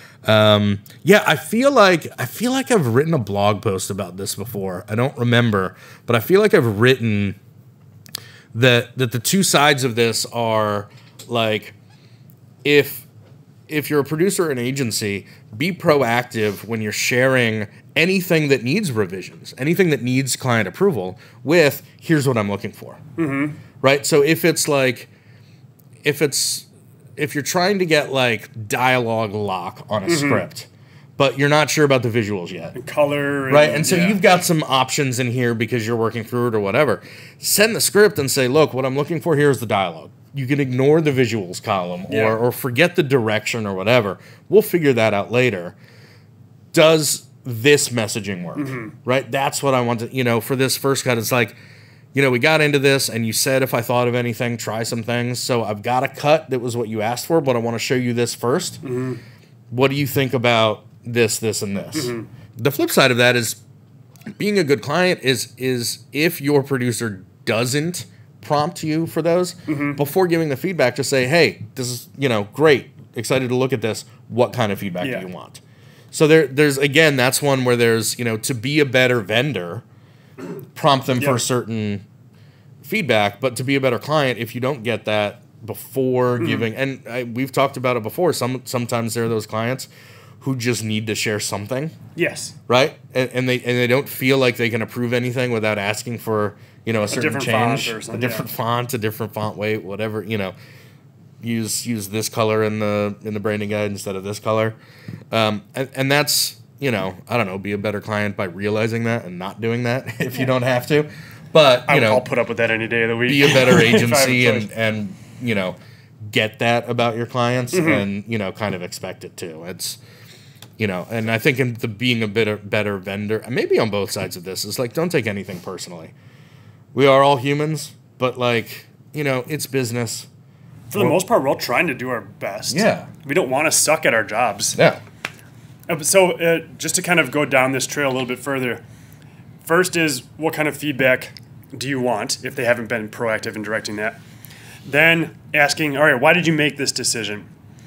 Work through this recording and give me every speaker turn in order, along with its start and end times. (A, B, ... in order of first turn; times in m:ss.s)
0:00.2-0:07.4 A
0:08.5-0:11.8 A
0:12.6-0:13.0 A
0:13.7-0:23.0 A
0:23.2-0:23.6 B
0:23.8-0:25.1 A
0:26.0-0:32.8 A
0:30.1-0:30.4 B
0:32.8-0:34.2 B
0:33.5-0:45.8 A
0:42.1-0:42.4 B
0:46.7-0:51.6 A
0:48.6-0:48.9 B
0:52.1-0:58.8 A
0:58.8-0:59.2 B
0:59.7-1:03.6 A
1:01.9-1:02.3 B
1:04.4-1:15.6 A
1:09.7-1:10.0 B
1:15.0-1:15.3 B
1:16.1-1:19.8 A
1:20.8-1:22.0 A
1:22.8-1:29.9 A
1:26.4-1:26.7 B
1:30.4-1:32.0 A
1:32.2-1:32.6 B
1:32.7-1:40.5 A
1:37.1-1:38.5 B
1:41.4-1:44.8 A
1:45.3-1:52.2 A
1:51.9-1:54.7 B
1:53.3-2:00.0 A
1:57.7-1:58.0 B
2:00.8-2:06.1 A
2:06.9-2:10.3 A
2:10.9-2:14.8 B
2:12.7-2:13.1 A
2:15.9-2:18.8 B
2:19.6-2:24.2 B
2:24.8-2:27.5 B